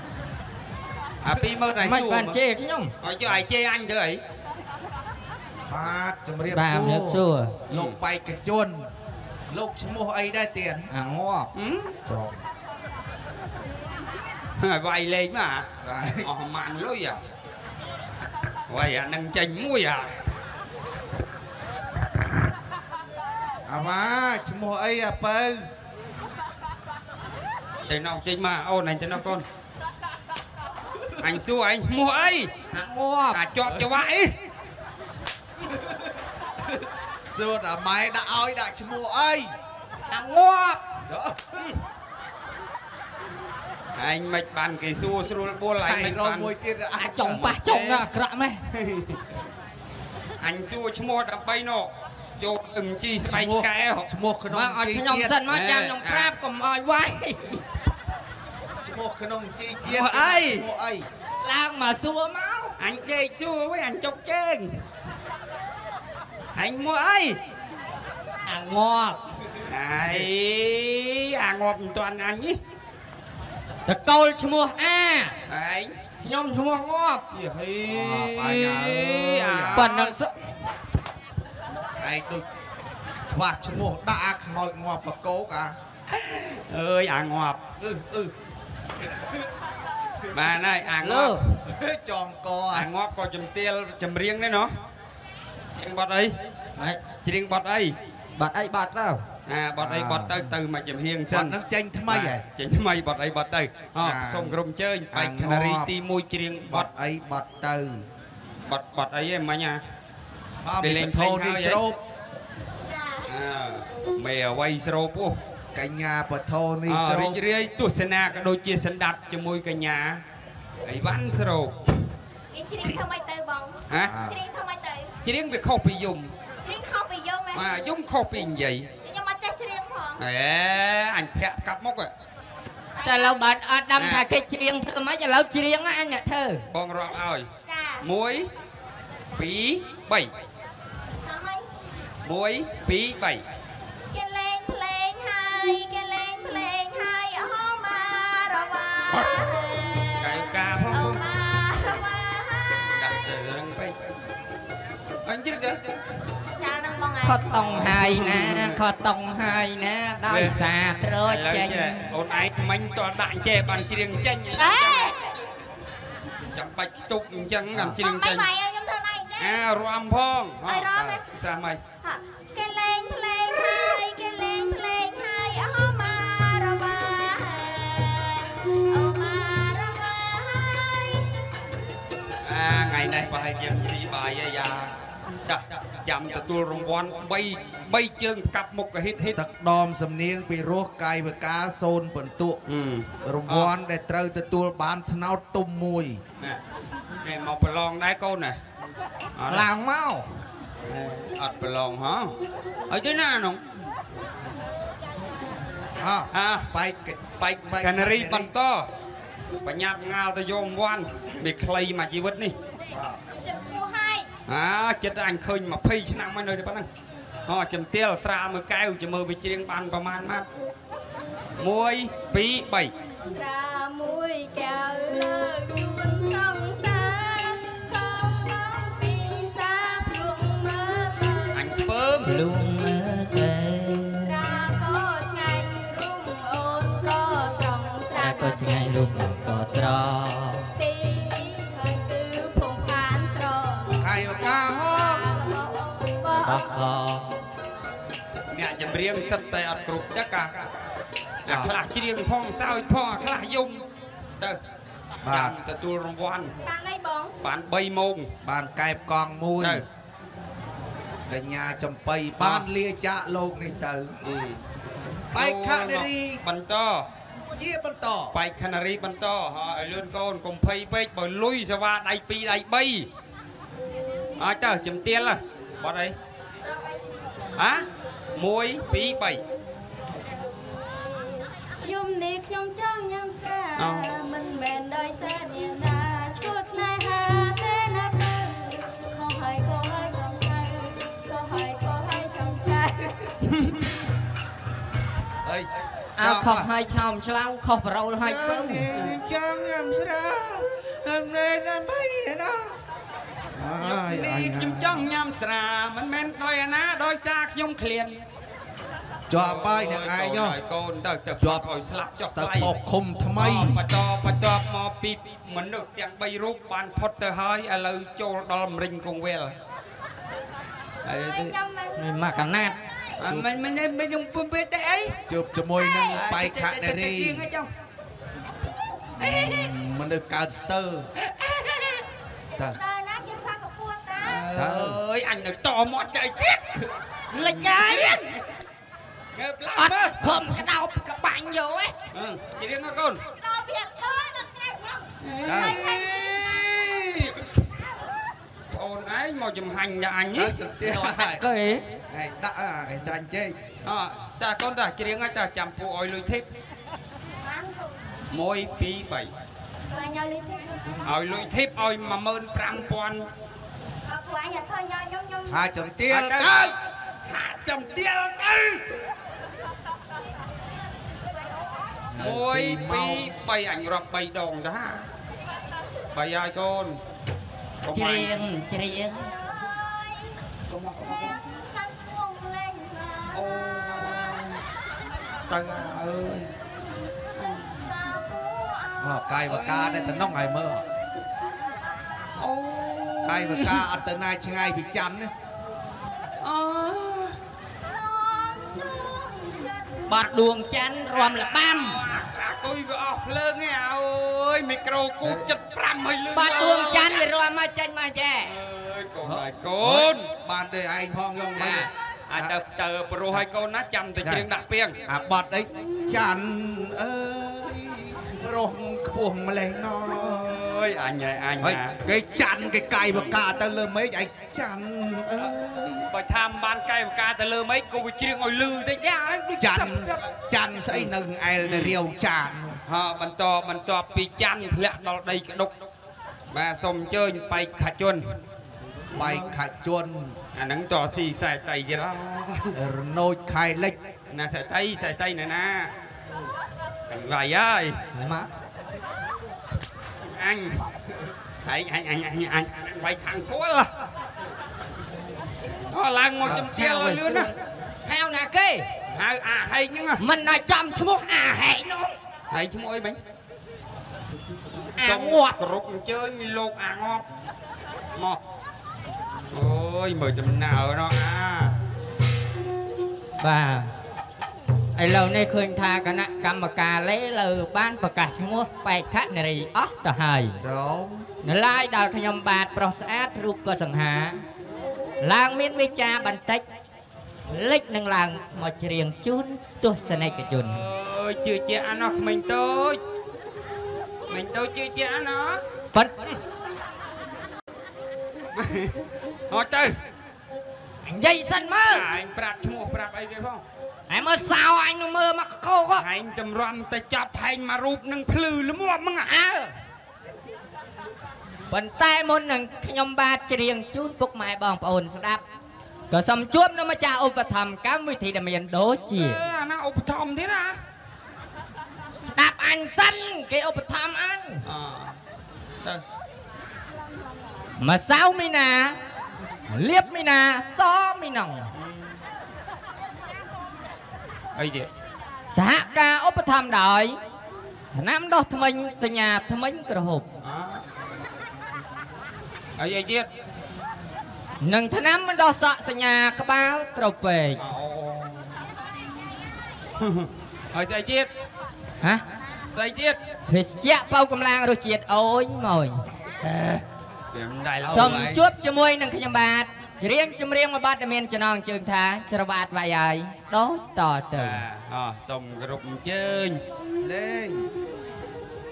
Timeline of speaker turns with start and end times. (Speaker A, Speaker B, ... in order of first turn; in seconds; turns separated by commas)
Speaker A: 1.2-2.4, Speaker B: 1.8-2.9, Speaker A: 3.0-4.2, Speaker C: 5.7-8.9, Speaker B: 6.5-7.5, Speaker A: 7.7-7.9, Speaker C: 9.5-10.9, Speaker B: 10.9-11.5, Speaker A: 11.5-11.9, Speaker C: 12.1-12.4, Speaker A: 14.6-17.2, Speaker C: 15.8-16.3, Speaker A: 18.7-20.2, Speaker C: 23.6-25.6, Speaker A: 27.9-29.4, Speaker A: 31.2-32.5, Speaker B: 32.7-33.4, Speaker A: 33.3-34.4, Speaker C: 37.3-39.5, Speaker B: 40.1-40.8, Speaker C: 41.1-41.7, Speaker A: 44.0-46.5, Speaker C: 45.8-47.5, Speaker B: 47.0-48.6, Speaker A: 47.4-48.0, Speaker A: 48.7-49.3, Speaker A: 50.4-54.1, Speaker C: 53.2-55.4, Speaker B: 54.5-57.6, Speaker A: 55.5-56.3, Speaker C: 58.8-61.0, Speaker A: 59.9-60.6, Speaker B: 61.4-62.8, Speaker A: 62.8-64.8, Speaker A: 66.5-67.4, Speaker B: 68.5-69.2, Speaker A: 69.6-72.6, Speaker B: 73.8-75.3, Speaker A: 75.5-75.9, Speaker B: 76.2-77.2, Speaker A: 77.3-79.9, Speaker C: 77.9-80.2, Speaker B: 79.7-80.3, Speaker C: 82.0-82.4, Speaker C: 83.3-85.8, Speaker A: 86.1-88.3, Speaker A: 90.3-91.4, Speaker B: 91.0-91.4, Speaker C: 91.6-92.9, Speaker A: 92.7-94.7, Speaker A: 95.8-96.4, Speaker B: 96.8-97.0, Speaker A: 97.2-98.0, Speaker B: 98.3-99.2, Speaker A: 99.5-101.5, Speaker C: 99.8-100.4, Speaker C: 101.3-102.4, Speaker A: 102.1-106.9, Speaker C: 104.0-104.6, Speaker C: 105.1-105.9, Speaker C: 106.7-108.0, Speaker A: 108.6-109.8, Speaker C: 110.6-112.0, Speaker A: 110.8-111.8, Speaker D: 112.8-113.3, Speaker A: 113.3-115.4, Speaker C: 115.7-117.4, Speaker A: 116.9-120.2, Speaker A: 120.8-122.1, Speaker D: 122.5-125.1, Speaker A: 123.9-124.1, Speaker C: 124.0-124.4, Speaker A: 125.2-126.3, Speaker D: 126.6-127.8, Speaker A: 127.5-128.9, Speaker D: 129.0-130.2, Speaker A: 130.2-132.1, Speaker D: 132.9-133.4, Speaker B: 133.0-136.7, Speaker A: 133.9-134.2, Speaker A: 136.7-137.5, Speaker D: 137.1-138.1, Speaker A: 138.0-138.5, Speaker A: 139.3-140.3, Speaker D: 141.2-141.7, Speaker A: 142.2-143.4, Speaker D: 144.1-153.1, Speaker A: 149.1-149.5, Speaker A: 150.2-151.2, Speaker A: 152.9-154.0, Speaker A: 155.2-156.0, Speaker D: 156.6-158.0, Speaker B: 157.2-162.1, Speaker A: 157.8-158.8, Speaker A: 160.3-165.1, Speaker D: 164.6-165.4, Speaker A: 166.4-168.5, Speaker C: 167.7-168.0, Speaker D: 168.0-169.6, Speaker A: 169.4-171.8, Speaker D: 170.6-171.3, Speaker C: 171.0-171.2, Speaker D: 172.0-181.3, Speaker A: 182.4-189.4, Speaker C: 189.3-192.6, Speaker A: 192.7-193.7, Speaker C: 193.2-196.2, Speaker A: 197.2-198.6, Speaker A: 199.4-199.7, Speaker B: 199.5-200.2, Speaker A: 200.8-202.3, Speaker A: 202.9-203.6, Speaker C: 206.0-208.5, Speaker A: 206.3-206.7, Speaker A: 207.6-208.9, Speaker A: 209.6-212.5, Speaker C: 212.9-213.2, Speaker D: 213.4-214.3, Speaker A: 214.5-216.9, Speaker A: 217.4-220.4, Speaker A: 221.6-222.9, Speaker D: 223.3-231.7, Speaker A: 231.5-232.4, Speaker B: 232.2-234.4, Speaker D: 234.2-239.1, Speaker B: 238.1-240.7, Speaker D: 240.8-246.7, Speaker C: 244.0-245.3, Speaker B: 246.3-247.4, Speaker A: 248.5-250.7, Speaker A: 251.4-253.8, Speaker C: 251.5-251.7, Speaker C: 255.2-255.6, Speaker A: 255.2-256.5, Speaker D: 256.6-257.3, Speaker A: 257.4-258.3, Speaker C: 258.4-259.8, Speaker A: 259.6-259.9, Speaker C: 261.3-264.1, Speaker A: 262.4-262.7, Speaker A: 264.2-264.6, Speaker C: 265.3-266.4, Speaker A: 265.3-267.1, Speaker C: 267.6-268.4, Speaker A: 268.3-273.1, Speaker A: 274.4-276.1, Speaker D: 276.6-277.3, Speaker A: 277.6-279.4, Speaker D: 280.7-293.4, Speaker A: 283.8-284.1, Speaker A: 293.5-293.9, Speaker C: 295.4-296.7, Speaker B: 296.2-298.9, Speaker C: 298.2-302.8, Speaker C: 303.6-305.1, Speaker A: 303.8-308.2, Speaker C: 309.3-310.6, Speaker A: 309.3-312.7, Speaker C: 311.4-311.6, Speaker C: 312.4-313.8, Speaker A: 313.4-319.5, Speaker A: 321.0-321.6, Speaker D: 321.1-322.0, Speaker B: 321.9-322.8, Speaker A: 323.2-325.2, Speaker C: 325.3-327.5, Speaker D: 325.8-326.2, Speaker A: 326.1-327.7, Speaker C: 329.2-331.1, Speaker A: 329.2-329.7, Speaker A: 331.2-332.0, Speaker D: 332.6-334.5, Speaker A: 334.2-338.4, Speaker C: 334.5-335.0, Speaker B: 337.3-338.3, Speaker A: 339.3-340.5, Speaker B: 339.8-341.9, Speaker A: 342.1-343.2, Speaker D: 343.3-346.6, Speaker A: 345.2-347.6, Speaker C: 345.4-345.8, Speaker A: 348.7-350.5, Speaker C: 350.3-351.4, Speaker B: 350.8-351.8, Speaker C: 352.1-353.6, Speaker A: 353.8-356.4, Speaker D: 357.3-358.0, Speaker A: 358.3-359.3, Speaker D: 359.9-361.0, Speaker A: 361.0-363.3, Speaker D: 364.1-365.6, Speaker C: 365.4-366.8, Speaker A: 366.1-369.0, Speaker C: 372.1-373.3, Speaker A: 372.2-375.1, Speaker A: 376.1-377.0, Speaker A: 377.8-378.4, Speaker B: 377.9-379.3, Speaker D: 379.0-380.4, Speaker A: 380.7-381.4, Speaker D: 381.0-384.6, Speaker A: 383.3-384.6, Speaker A: 385.5-386.5, Speaker D: 387.4-389.7, Speaker C: 389.0-390.8, Speaker A: 389.5-390.2, Speaker A: 392.4-393.9, Speaker C: 393.2-395.3, Speaker A: 396.4-397.4, Speaker D: 397.8-400.2, Speaker B: 400.1-402.0, Speaker A: 401.1-407.3, Speaker C: 405.2-405.5, Speaker B: 406.3-408.5, Speaker A: 408.4-410.3, Speaker C: 409.2-412.5, Speaker A: 411.6-415.0, Speaker C: 414.2-414.5, Speaker C: 415.0-420.6, Speaker A: 420.2-422.0, Speaker C: 421.6-426.1, Speaker A: 426.1-430.2, Speaker C: 429.6-432.8, Speaker A: 431.6-432.0, Speaker A: 432.9-435.7, Speaker A: 436.5-438.4, Speaker C: 439.1-440.4, Speaker A: 439.1-439.5, Speaker A: 440.5-442.7, Speaker C: 442.7-444.0, Speaker A: 444.3-445.9, Speaker A: 447.1-448.0, Speaker B: 448.1-448.5, Speaker A: 450.3-450.9, Speaker A: 451.6-453.9, Speaker A: 455.9-457.5, Speaker B: 456.4-457.5, Speaker B: 458.1-458.9, Speaker A: 459.1-460.2, Speaker B: 460.2-462.1, Speaker A: 462.5-463.2, Speaker B: 464.9-465.6, Speaker A: 465.0-467.2, Speaker A: 469.5-471.8, Speaker B: 473.4-473.9, Speaker B: 474.9-480.6, Speaker C: 480.6-481.2, Speaker B: 481.4-484.4, Speaker B: 485.2-486.6, Speaker B: 487.5-490.9, Speaker A: 490.0-493.0, Speaker A: 494.3-495.6, Speaker A: 498.5-498.9, Speaker A: 499.5-499.9, Speaker B: 501.0-502.1, Speaker A: 501.9-503.6, Speaker B: 504.1-506.1, Speaker A: 506.0-509.3, Speaker B: 509.2-509.7, Speaker B: 511.7-515.4, Speaker B: 516.1-519.4, Speaker A: 519.1-520.8, Speaker B: 522.2-524.6, Speaker A: 524.6-525.2, Speaker B: 527.8-529.0, Speaker B: 529.7-531.7, Speaker A: 531.7-532.2, Speaker A: 534.5-534.9, Speaker B: 535.5-537.2, Speaker B: 537.9-540.3, Speaker A: 540.4-540.8, Speaker A: 542.8-543.3, Speaker B: 544.6-547.6, Speaker A: 547.5-548.5, Speaker A: 550.0-551.3, Speaker A: 552.7-553.2, Speaker B: 553.5-556.0, Speaker A: 556.4-558.3, Speaker C: 557.8-558.4, Speaker B: 557.9-564.6, Speaker A: 564.3-566.6, Speaker C: 567.0-567.7